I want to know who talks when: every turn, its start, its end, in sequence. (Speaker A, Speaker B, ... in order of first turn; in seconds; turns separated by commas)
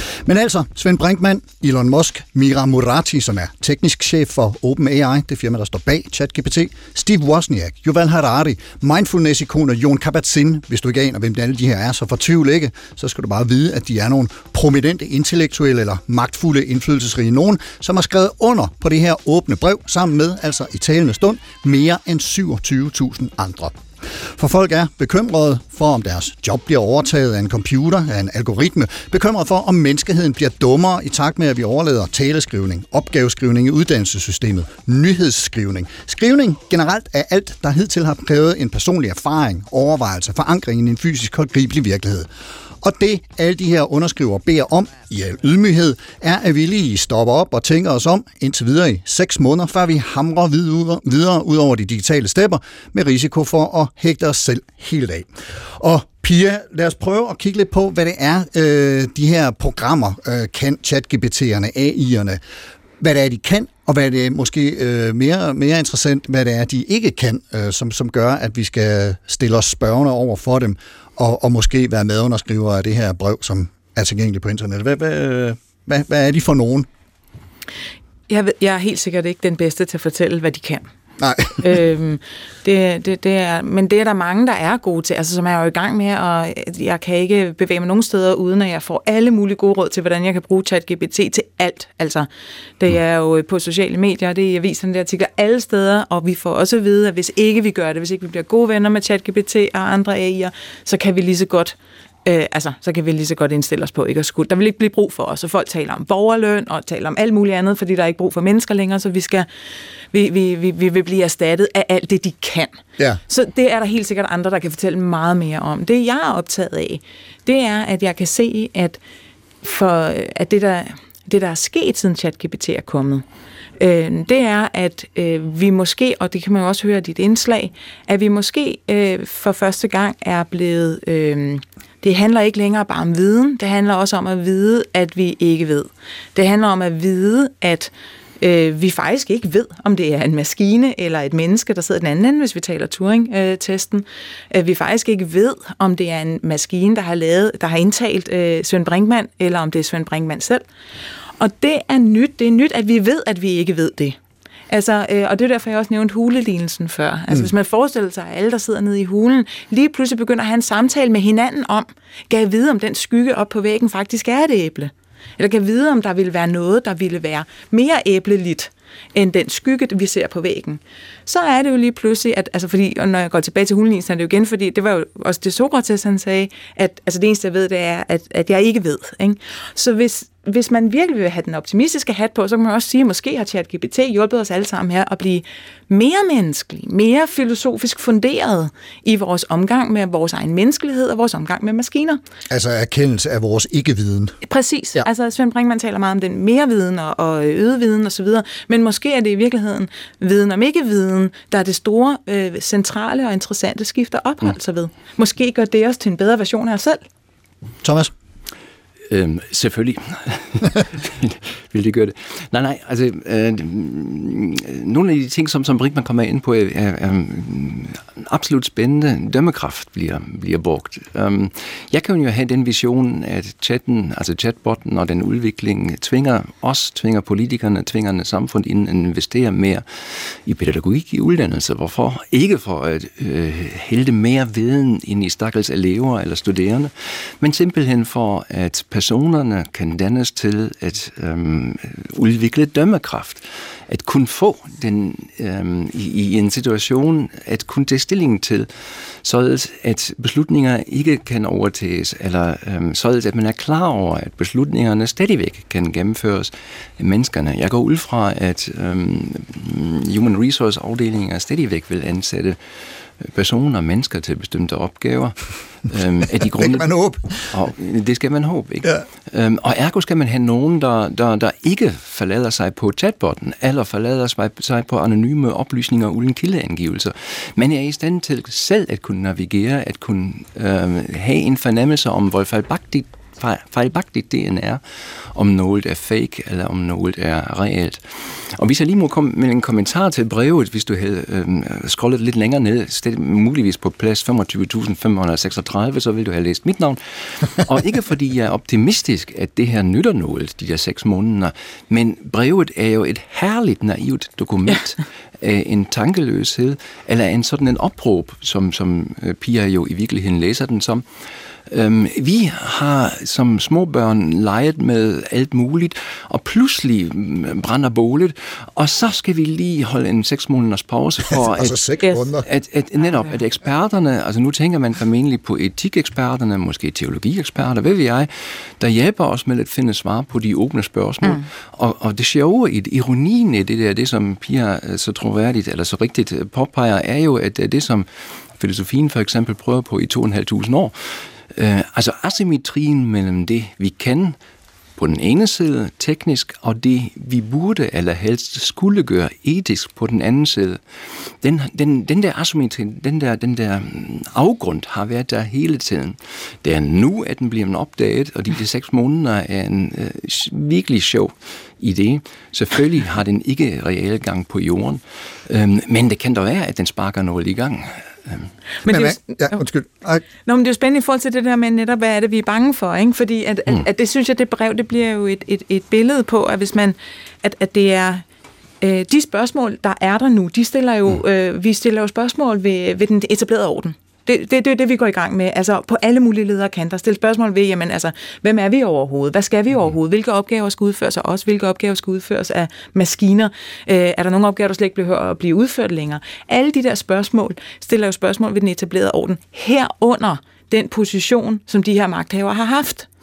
Speaker A: 0.2-23.8, Speaker A: 24.4-42.3, Speaker A: 42.8-62.4, Speaker A: 63.0-76.9, Speaker B: 78.3-80.9, Speaker A: 81.2-81.7, Speaker B: 81.5-92.3, Speaker B: 92.8-109.5, Speaker B: 110.1-119.0, Speaker B: 119.6-123.2, Speaker B: 123.8-150.6, Speaker B: 151.4-154.2, Speaker B: 154.7-192.2, Speaker A: 192.5-194.3, Speaker B: 194.4-207.0, Speaker A: 207.8-208.1, Speaker C: 209.1-262.6, Speaker C: 263.2-266.9, Speaker A: 266.4-267.4, Speaker C: 267.5-284.8, Speaker C: 285.3-311.0, Speaker C: 311.7-321.8, Speaker A: 321.5-322.4, Speaker C: 322.4-344.4, Speaker C: 345.0-350.8, Speaker C: 351.4-368.5, Speaker B: 368.8-369.6, Speaker A: 368.9-370.2, Speaker B: 370.4-378.2, Speaker B: 378.8-403.1